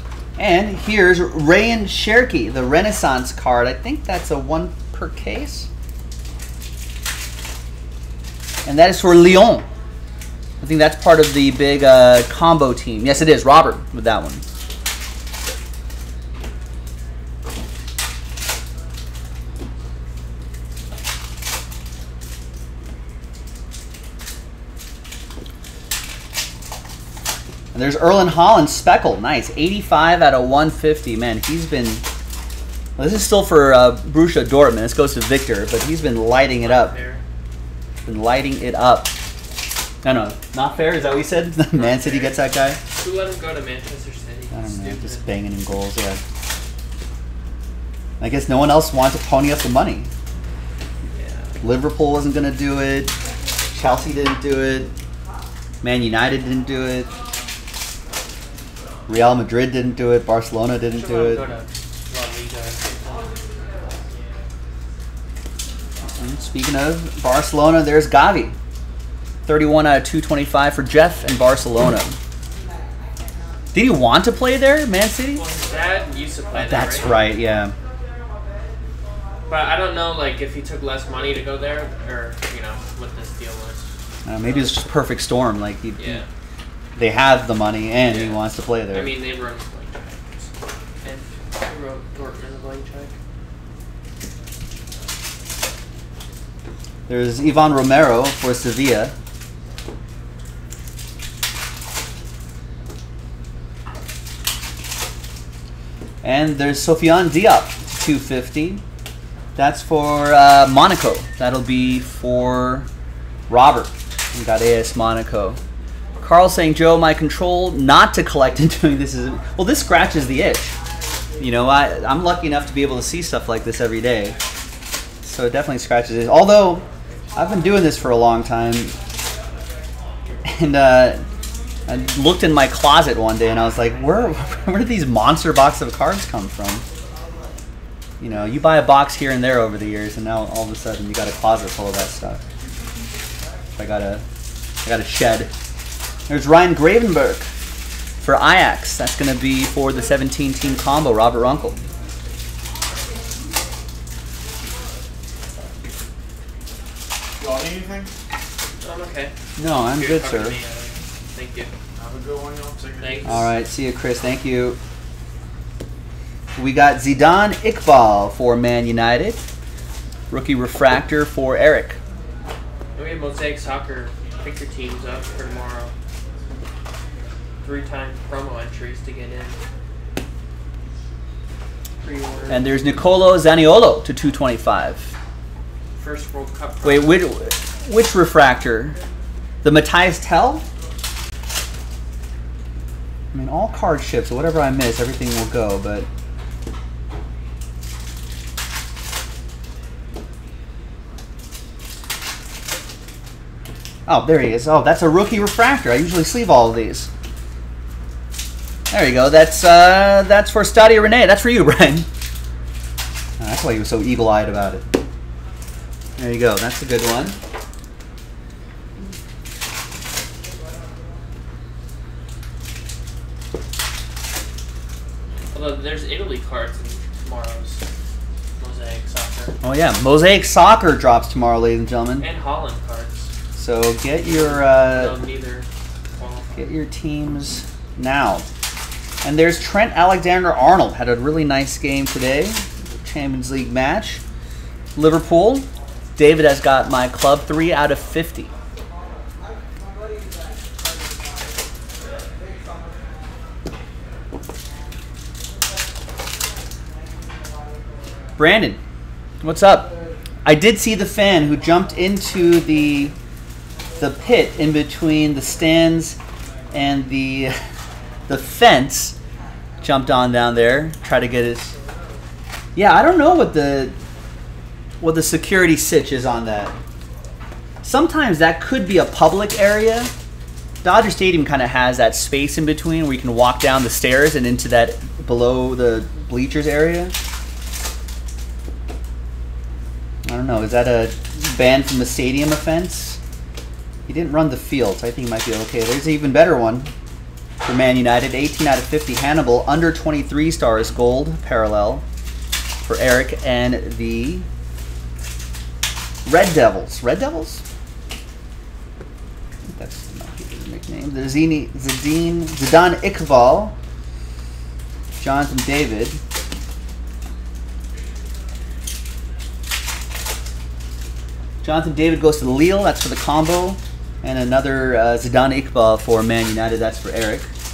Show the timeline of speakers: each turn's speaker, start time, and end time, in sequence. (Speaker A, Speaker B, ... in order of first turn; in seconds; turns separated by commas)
Speaker A: 0.4-5.7, Speaker A: 8.7-9.7, Speaker A: 10.6-14.4, Speaker A: 27.7-32.0, Speaker A: 33.0-36.9, Speaker B: 36.6-37.2, Speaker A: 38.0-39.1, Speaker A: 40.0-42.8, Speaker B: 41.7-45.3, Speaker A: 44.5-46.2, Speaker A: 48.2-50.1, Speaker B: 51.1-51.5, Speaker A: 51.6-53.1, Speaker A: 53.7-54.9, Speaker A: 55.8-57.1, Speaker A: 59.1-61.5, Speaker B: 60.9-63.4, Speaker A: 66.0-68.5, Speaker A: 69.5-72.2, Speaker A: 73.7-75.4, Speaker B: 75.3-77.3, Speaker A: 76.5-77.7, Speaker B: 79.5-84.8, Speaker A: 84.2-86.2, Speaker B: 86.0-86.2, Speaker A: 87.0-89.1, Speaker B: 88.0-90.5, Speaker B: 91.0-93.1, Speaker A: 97.1-99.1, Speaker A: 106.2-108.8, Speaker A: 109.5-112.9, Speaker A: 113.5-115.6, Speaker A: 116.2-120.7, Speaker A: 121.4-124.4, Speaker A: 125.2-128.9, Speaker A: 130.4-131.2, Speaker A: 131.9-136.8, Speaker A: 138.2-142.4, Speaker A: 143.8-144.2, Speaker A: 144.8-145.5, Speaker A: 146.3-147.5, Speaker A: 148.2-151.8, Speaker C: 157.4-158.1, Speaker B: 158.8-159.3, Speaker A: 159.6-160.6, Speaker B: 159.8-161.7, Speaker C: 161.9-163.5, Speaker B: 163.0-163.4, Speaker A: 163.2-164.8, Speaker A: 166.6-169.4, Speaker A: 170.3-172.0, Speaker B: 172.9-175.9, Speaker B: 177.6-179.6, Speaker B: 182.0-182.7, Speaker A: 182.5-185.1, Speaker B: 186.0-187.2, Speaker A: 186.8-189.0, Speaker A: 189.6-190.7, Speaker A: 193.3-196.1, Speaker A: 204.1-207.1, Speaker A: 208.9-212.1, Speaker A: 213.4-214.9, Speaker A: 216.2-217.4, Speaker B: 225.5-227.8, Speaker B: 228.6-229.6, Speaker A: 229.6-232.2, Speaker B: 232.2-233.3, Speaker A: 233.6-235.2, Speaker B: 234.2-236.6, Speaker A: 236.6-238.4, Speaker A: 239.2-244.2, Speaker A: 244.9-248.5, Speaker A: 258.4-258.8, Speaker A: 259.4-259.9, Speaker A: 260.4-263.1, Speaker A: 264.0-266.2, Speaker A: 266.7-267.6, Speaker A: 268.3-269.2, Speaker A: 269.8-271.7, Speaker A: 272.7-274.0, Speaker A: 275.0-276.7, Speaker A: 277.8-280.1, Speaker A: 280.8-287.1, Speaker A: 290.2-293.2, Speaker A: 294.1-296.9, Speaker A: 297.6-302.0, Speaker A: 302.8-304.4, Speaker A: 306.2-307.6, Speaker A: 309.7-313.7, Speaker A: 315.2-316.2, Speaker A: 321.6-327.5